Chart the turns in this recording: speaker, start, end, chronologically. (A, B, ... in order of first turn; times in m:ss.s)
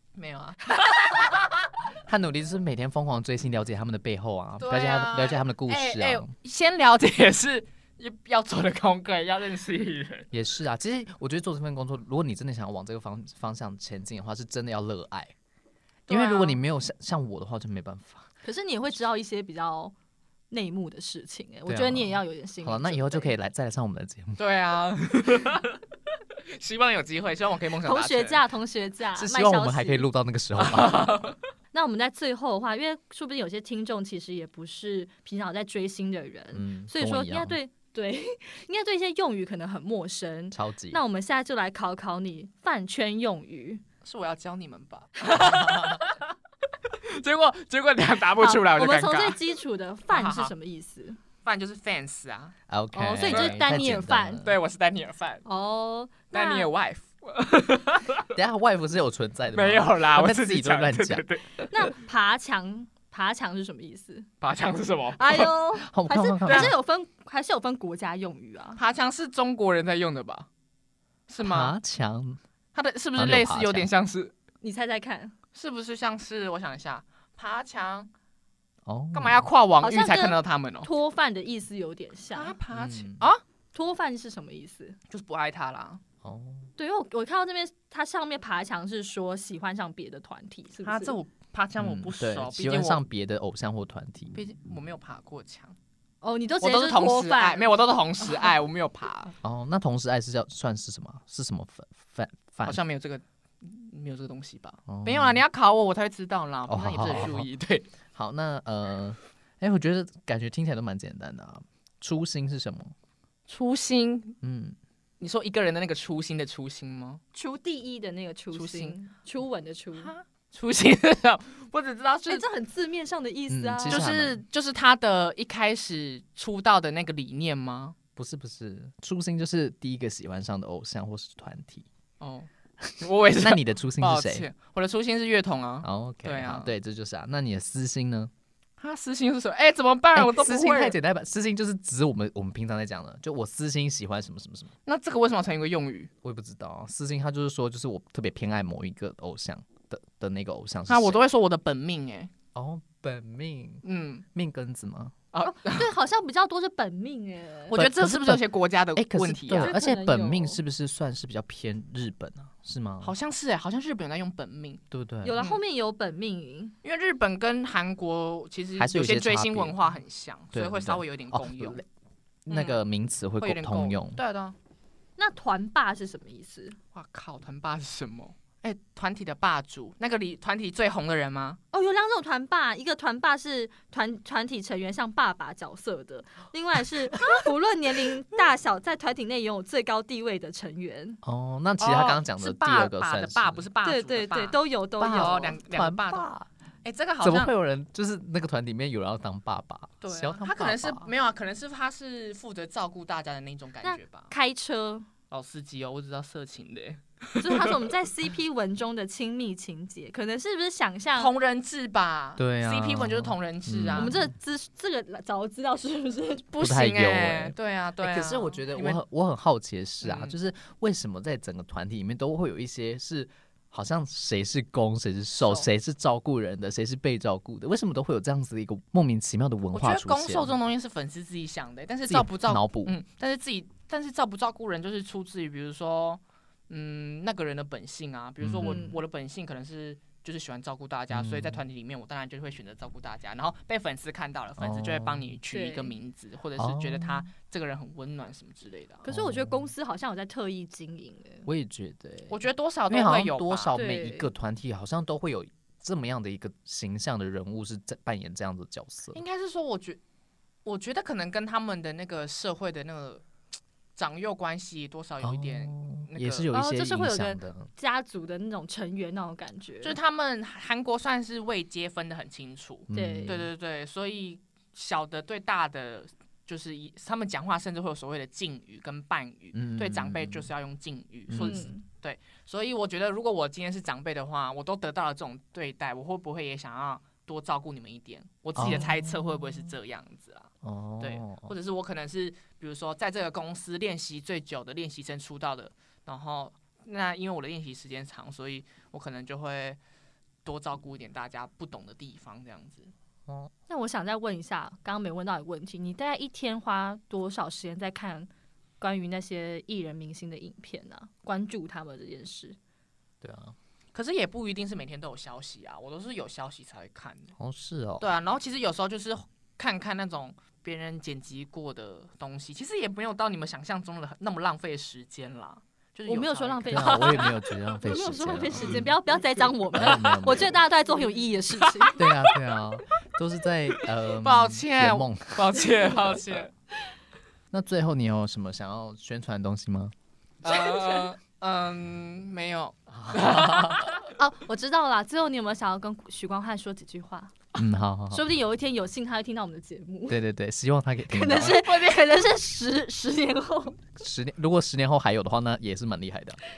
0:00.2-0:01.5 A
0:00.8-0:01.1 B
0:02.1-0:06.3 C
0:04.6-0:10.3 A
0:10.3-0:15.3 C
0:16.1-0:16.6 A
0:16.1-0:18.3 C
0:18.4-0:19.9 B
0:20.5-0:23.3 B
0:21.7-0:24.4 C
0:24.4-0:25.8 A
0:26.5-0:28.4 A
0:27.8-0:30.1 B
0:29.2-0:31.3 C
0:30.6-0:31.4 A
0:31.7-0:43.8 B
0:36.5-0:37.6 C
0:40.5-0:41.0 C
0:44.0-0:46.3 A
0:46.9-0:49.4 A
0:48.4-0:51.2 B
0:50.1-0:50.5 A
0:51.4-0:52.5 A
0:52.7-0:54.6 C
0:52.9-0:54.4 B
0:53.3-0:53.7 A
0:54.4-0:55.4 A
0:55.4-0:56.7 B
0:56.3-0:58.3 A
0:58.3-1:01.2 C
0:59.5-1:02.0 A
1:01.7-1:04.3 B
1:04.4-1:05.5 A
1:05.2-1:08.8 B
1:05.8-1:06.7 C
1:06.5-1:06.8 A
1:08.8-1:10.5 A
1:11.3-1:11.8 A
1:11.4-1:12.4 C
1:12.8-1:14.3 A
1:13.2-1:13.9 C
1:14.6-1:15.4 B
1:15.5-1:18.1 A
1:18.9-1:19.5 C
1:19.1-1:20.9 A
1:19.8-1:22.6 B
1:22.3-1:23.4 A
1:22.7-1:23.3 C
1:23.7-1:25.0 B
1:25.1-1:26.0 A
1:26.2-1:26.7 C
1:26.8-1:31.2 B
1:30.8-1:33.0 A
1:31.8-1:34.4 C
1:34.3-1:35.8 A
1:36.2-1:37.6 B
1:36.6-1:39.3 A
1:39.4-1:42.8 C
1:42.6-1:47.9 A
1:44.9-1:45.4 C
1:46.7-1:47.5 C
1:48.1-1:52.9 C
1:53.5-1:54.4 A
1:54.4-1:54.8 C
1:55.2-1:57.2 A
1:57.4-2:00.1 B
1:58.5-1:59.0 A
2:00.0-2:02.4 A
2:02.3-2:04.1 B
2:03.5-2:04.4 C
2:03.9-2:08.0 A
2:08.2-2:11.9 C
2:12.2-2:12.5 A
2:12.8-2:14.5 C
2:13.0-2:16.7 A
2:15.8-2:18.3 C
2:18.8-2:21.0 A
2:20.2-2:24.7 C
2:24.9-2:26.1 A
2:26.2-2:31.2 C
2:30.9-2:32.3 A
2:32.6-2:35.2 C
2:33.8-2:34.2 A
2:35.3-2:35.9 A
2:35.4-2:37.8 B
2:37.7-2:39.7 A
2:37.7-2:38.4 C
2:39.0-2:43.2 C
2:39.6-2:40.6 B
2:43.0-2:44.8 A
2:44.9-2:45.4 C
2:45.2-2:46.8 B
2:46.8-2:51.8 A
2:48.8-2:49.8 C
2:50.5-2:51.8 C
2:52.5-2:54.2 C
2:52.5-2:52.8 A
2:53.4-2:54.6 A
2:55.2-2:56.8 B
2:56.9-3:01.6 A
3:01.7-3:11.2 B
3:11.2-3:13.7 C
3:11.8-3:16.3 A
3:13.8-3:15.6 B
3:15.0-3:16.5 C
3:16.8-3:17.5 A
3:17.2-3:21.1 C
3:20.0-3:24.3 A
3:23.8-3:25.1 B
3:25.3-3:27.9 A
3:27.4-3:31.3 B
3:31.2-3:34.2 A
3:32.4-3:34.3 C
3:34.0-3:36.5 B
3:36.5-3:39.0 A
3:36.6-3:50.5 C
3:40.0-3:40.4 A
3:45.4-3:45.7 A
3:49.7-4:09.0 A
3:52.1-3:53.0 C
3:58.4-3:58.9 C
3:58.6-3:59.0 B
4:01.1-4:01.6 C
4:04.6-4:05.3 C
4:05.5-4:05.9 B
4:06.6-4:07.3 C
4:09.0-4:11.5 B
4:09.1-4:09.7 C
4:11.5-4:19.2 C
4:12.3-4:13.8 A
4:13.7-4:14.3 B
4:19.1-4:20.0 A
4:20.6-4:23.2 A
4:24.0-4:26.5 A
4:25.2-4:27.7 C
4:26.5-4:30.0 B
4:29.8-4:59.8 A
4:32.9-4:33.5 C
4:32.9-4:33.4 B
4:39.5-4:40.5 C
4:41.3-4:41.7 C
4:41.4-4:41.8 B
4:48.6-4:48.9 C
4:50.6-4:51.5 C
5:00.4-5:02.9 A
5:03.3-5:03.5 C
5:03.7-5:12.6 B
5:13.2-5:13.6 C
5:13.9-5:17.3 A
5:17.4-5:18.1 C
5:18.0-5:27.3 A
5:26.1-5:32.0 B
5:26.7-5:28.9 C
5:29.7-5:30.6 C
5:29.8-5:30.2 A
5:31.6-5:32.3 A
5:32.0-5:36.2 C
5:33.8-5:36.5 A
5:37.5-5:39.9 C
5:40.4-5:44.1 A
5:40.5-5:41.1 B
5:42.9-5:43.9 C
5:44.1-5:47.3 B
5:47.6-5:48.3 C
5:48.1-5:50.2 B
5:50.1-5:51.6 C
5:51.1-5:53.8 B
5:51.3-5:52.0 A
5:54.0-5:56.4 C